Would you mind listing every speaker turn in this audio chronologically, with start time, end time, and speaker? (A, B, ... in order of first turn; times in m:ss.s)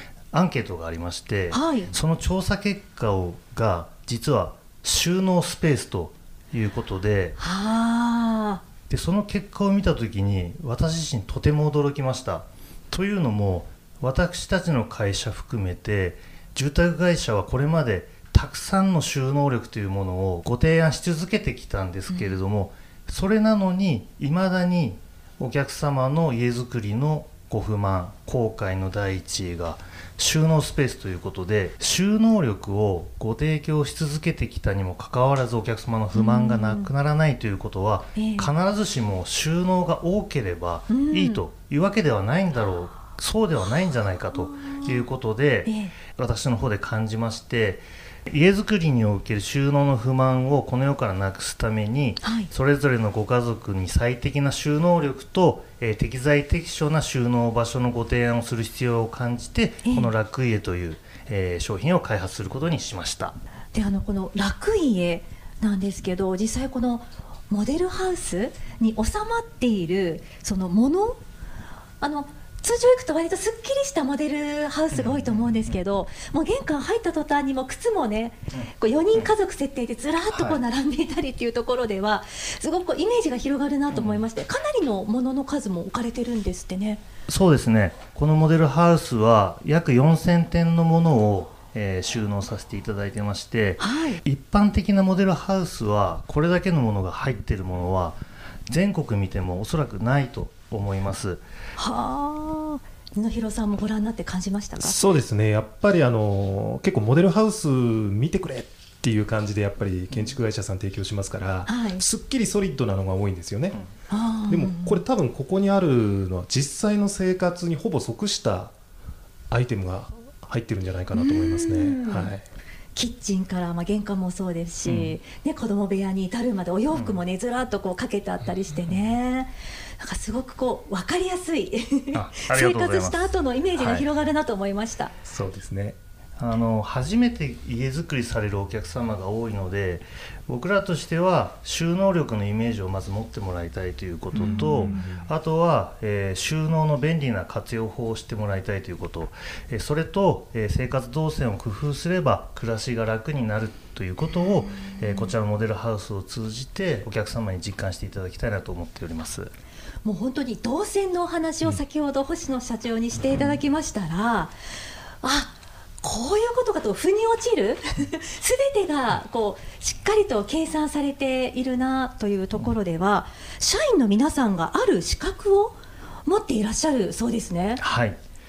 0:00.3-0:07.4 A
0:01.5-0:01.9 B
0:07.4-0:08.6 B
0:08.9-1:03.4 A
0:22.1-0:22.4 B
0:36.1-0:36.9 B
0:38.2-0:38.5 B
0:40.9-0:41.4 B
0:44.6-0:44.8 B
0:45.6-0:45.9 B
0:52.2-0:52.5 B
0:59.8-1:00.1 B
1:03.7-1:11.2 B
1:12.0-1:27.0 B
1:14.9-1:15.5 A
1:23.9-1:24.2 A
1:27.3-1:41.4 A
1:33.8-1:34.2 B
1:41.8-1:45.0 B
1:44.8-1:53.8 C
1:51.6-1:52.0 B
1:54.1-1:55.0 B
1:54.5-1:58.7 C
1:59.5-2:02.4 C
2:01.1-2:02.3 B
2:02.9-2:15.1 B
2:04.8-2:05.2 A
2:06.9-2:07.2 A
2:12.1-2:14.0 A
2:15.2-2:16.0 C
2:16.4-2:39.5 A
2:24.4-2:25.0 B
2:24.4-2:25.3 C
2:40.0-2:44.5 B
2:45.2-2:57.8 B
2:57.8-2:58.2 A